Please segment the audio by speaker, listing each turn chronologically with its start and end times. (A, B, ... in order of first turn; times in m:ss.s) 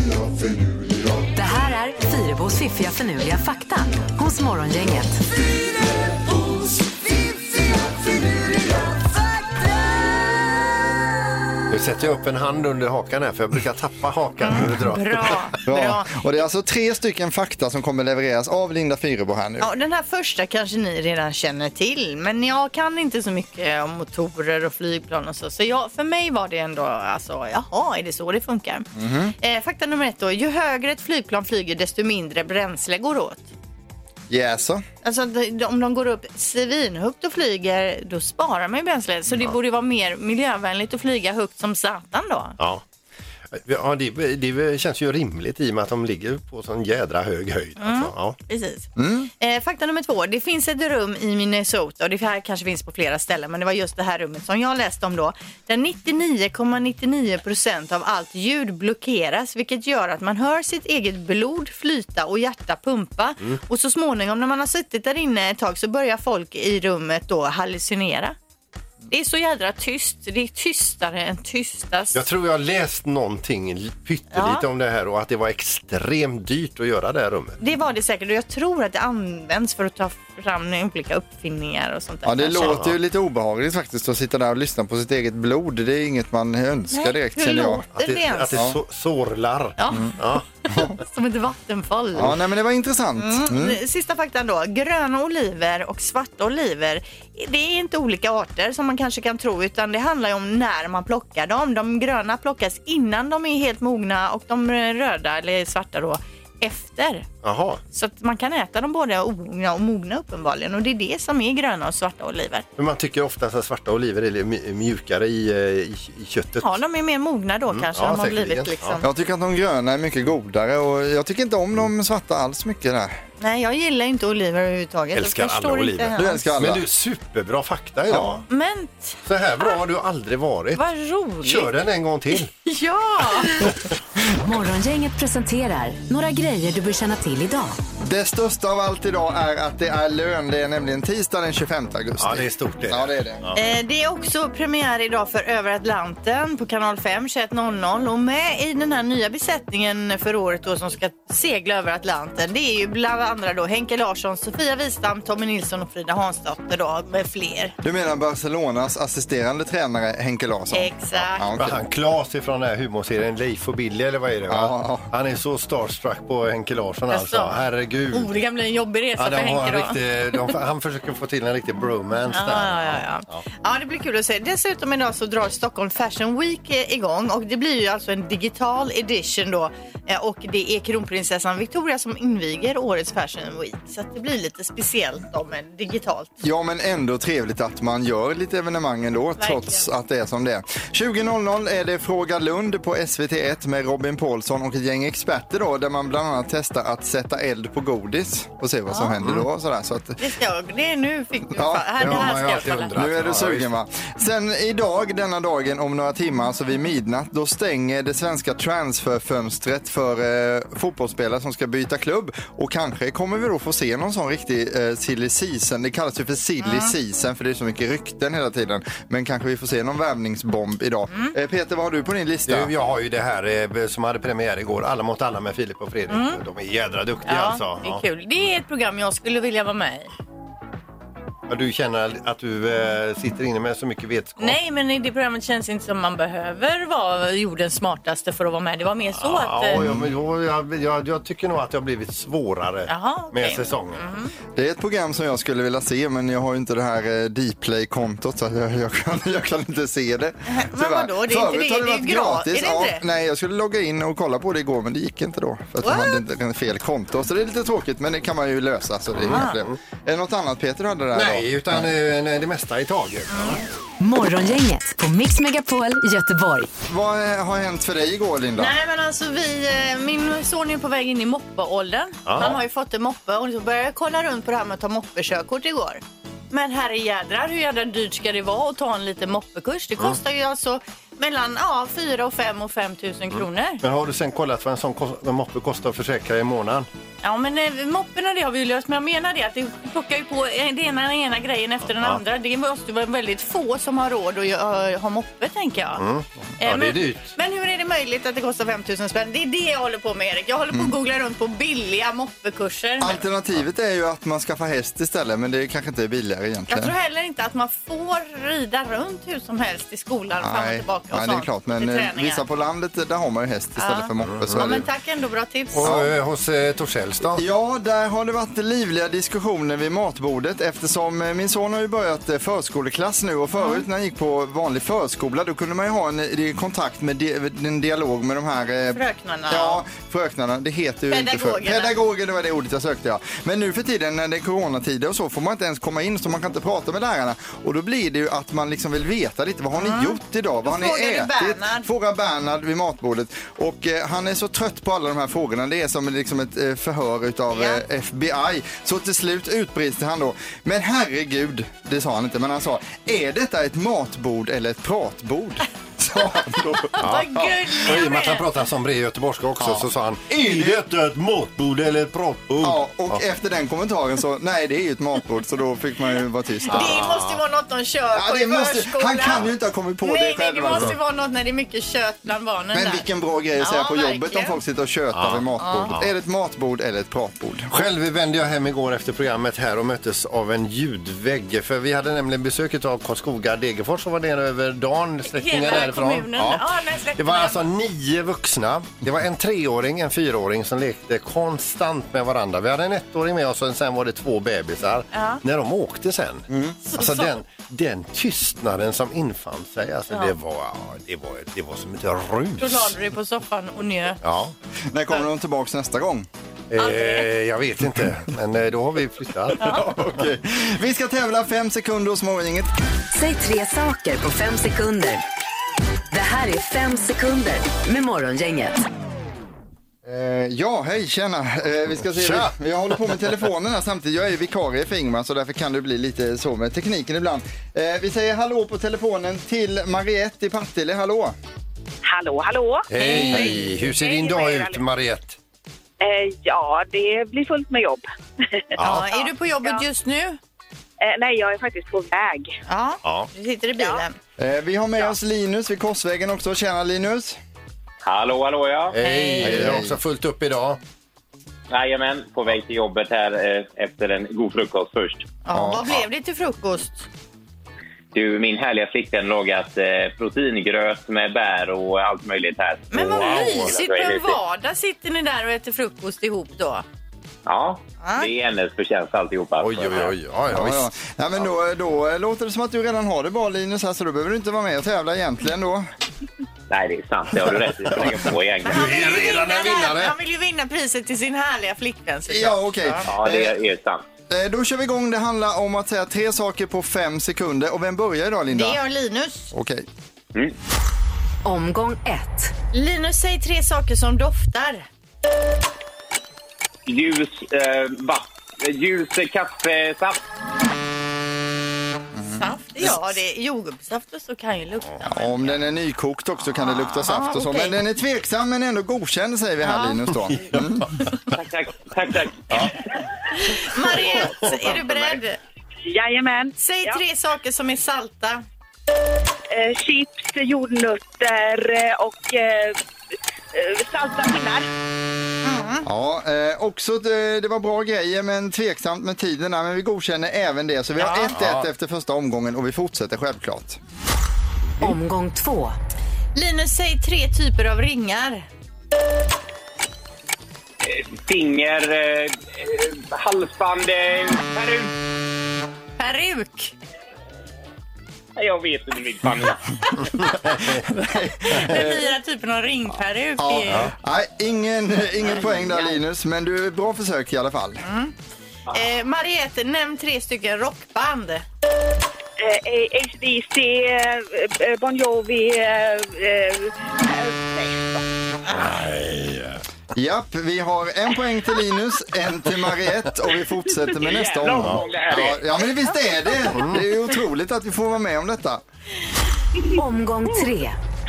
0:01.3-0:05.2 A
0:11.7-0:15.4 B
0:14.4-0:16.2 C
0:15.6-0:19.7 D
0:19.6-0:28.9 C
0:28.9-0:29.3 D
0:29.4-0:33.5 C
0:34.3-0:34.8 D
0:35.0-0:42.6 C
0:43.5-0:48.4 B
0:47.8-0:48.9 C
0:49.0-0:49.3 D
0:49.4-1:08.4 C
1:09.1-1:12.2 C
1:12.1-1:17.6 B
1:14.3-1:14.6 C
1:17.6-1:22.8 C
1:22.2-1:27.8 D
1:22.6-1:23.0 B
1:26.9-1:28.6 C
1:28.0-1:30.4 B
1:29.8-1:32.3 C
1:29.9-1:30.2 D
1:32.2-1:33.8 D
1:33.2-1:47.3 C
1:47.4-1:47.8 B
1:47.9-1:52.7 C
1:52.8-1:56.8 B
1:56.6-1:59.1 C
1:57.7-1:59.0 B
1:59.0-2:03.2 D
2:03.4-2:06.4 C
2:05.1-2:08.4 B
2:06.2-2:06.8 D
2:08.1-2:08.4 D
2:08.5-2:09.2 C
2:09.2-2:10.8 B
2:10.7-2:11.7 C
2:11.4-2:12.5 B
2:12.6-2:13.7 C
2:13.5-2:13.8 B
2:14.2-2:17.8 A
2:18.0-2:23.4 D
2:22.2-2:23.6 B
2:23.5-2:37.7 C
2:37.8-2:41.8 D
2:40.7-2:41.5 C
2:41.6-2:48.3 B
2:44.5-2:45.1 D
2:47.1-2:47.6 C
2:48.1-2:50.5 C
2:49.2-2:53.4 B
2:52.3-3:06.3 C
3:06.4-3:20.2 D
3:09.4-3:09.8 C
3:18.9-3:19.1 C
3:20.2-3:22.9 C
3:21.5-3:22.2 D
3:22.0-3:23.7 B
3:22.9-3:42.7 D
3:36.6-3:36.9 C
3:42.5-3:48.0 B
3:46.1-3:46.4 C
3:47.2-3:50.1 C
3:51.5-3:54.6 B
3:54.4-3:59.8 C
3:59.2-4:04.0 B
3:59.8-4:00.1 D
4:02.9-4:04.3 C
4:04.6-4:21.9 D
4:10.5-4:13.0 C
4:15.8-4:16.2 C
4:19.2-4:19.7 B
4:19.3-4:19.6 C
4:21.1-4:23.6 B
4:23.3-4:23.6 C
4:24.0-4:26.7 A
4:26.9-4:28.7 D
4:28.6-4:43.8 C
4:32.2-4:32.6 B
4:43.8-4:46.9 B
4:47.2-4:56.0 C
4:56.0-4:57.3 B
4:56.6-5:03.2 C
5:03.0-5:06.9 D
5:06.7-5:12.4 C
5:10.4-5:14.8 D
5:13.8-5:16.0 C
5:14.2-5:14.7 B
5:15.7-5:17.4 B
5:15.8-5:16.1 D
5:17.3-5:57.5 D
5:23.6-5:23.8 C
5:28.9-5:29.8 C
5:31.1-5:31.9 C
5:39.8-5:41.8 C
5:47.5-5:47.8 C
5:57.0-5:58.4 C
5:57.0-6:03.2 B
5:59.6-6:00.8 D
6:02.6-6:07.0 D
6:06.7-6:07.4 B
6:06.7-6:09.4 C
6:08.1-6:10.9 D
6:10.0-6:13.0 C
6:12.7-6:17.9 D
6:13.6-6:14.6 C
6:15.1-6:16.1 B
6:15.6-6:15.9 C
6:17.7-6:43.0 B
6:25.3-6:27.6 C
6:35.1-6:35.4 C
6:36.5-6:36.8 D
6:36.8-6:37.4 C
6:42.6-6:44.2 C
6:44.2-6:44.5 B
6:44.9-6:46.3 D
6:46.7-6:49.8 B
6:46.8-6:47.3 C
6:49.6-6:52.7 D
6:53.1-6:55.2 A
6:56.1-6:58.8 A
7:00.0-7:11.3 D
7:02.0-7:03.3 B
7:12.0-7:14.8 E
7:12.9-7:15.4 B
7:13.0-7:13.5 C
7:16.0-7:19.8 E
7:18.8-7:19.0 B
7:18.8-7:20.4 C
7:21.0-7:22.5 E
7:22.7-7:24.2 C
7:23.0-7:23.3 B
7:23.8-7:24.0 E
7:24.4-7:27.4 D
7:28.0-7:28.9 F
7:28.9-7:30.8 B
7:29.0-7:29.7 C
7:29.4-7:30.0 D
7:31.7-7:35.3 F
7:35.4-7:37.0 C
7:35.5-7:36.0 D
7:38.1-7:44.4 F
7:42.9-7:46.8 C
7:42.9-7:43.7 B
7:47.4-7:50.1 F
7:48.0-7:48.3 C
7:49.6-7:50.9 B
7:50.5-7:55.9 D
7:56.7-7:58.9 F
7:58.6-8:00.1 B
7:58.6-8:03.1 C
8:02.3-8:03.6 D
8:03.1-8:04.0 F
8:04.3-8:08.8 D
8:08.5-8:09.5 C
8:09.5-8:09.8 D
8:11.4-8:12.5 A
8:12.7-8:14.8 C
8:16.8-8:20.2 F
8:22.1-8:23.0 D
8:22.3-8:25.6 C
8:25.0-8:30.9 D
8:26.6-8:27.8 C
8:29.6-8:30.0 C
8:30.6-8:30.8 B
8:31.3-8:32.8 F
8:33.4-8:35.4 C
8:35.8-8:37.0 E
8:36.6-8:38.4 C
8:39.5-8:42.8 E
8:43.5-8:44.7 E
8:45.4-8:45.8 C
8:45.8-8:53.8 D
8:51.0-8:51.3 C
8:51.3-8:51.7 B
8:54.8-8:55.8 A
8:56.3-8:58.4 C
9:00.8-9:04.9 F
9:06.0-9:06.7 C
9:08.4-9:09.6 F
9:10.7-9:12.0 D
9:11.5-9:13.9 C
9:13.4-9:17.8 D
9:17.8-9:18.1 C
9:18.7-9:21.4 C
9:22.4-9:28.0 E
9:28.5-9:29.6 B
9:29.9-9:38.6 D
9:34.0-9:35.5 F
9:34.5-9:34.8 B
9:36.5-9:36.8 B
9:39.7-9:40.8 A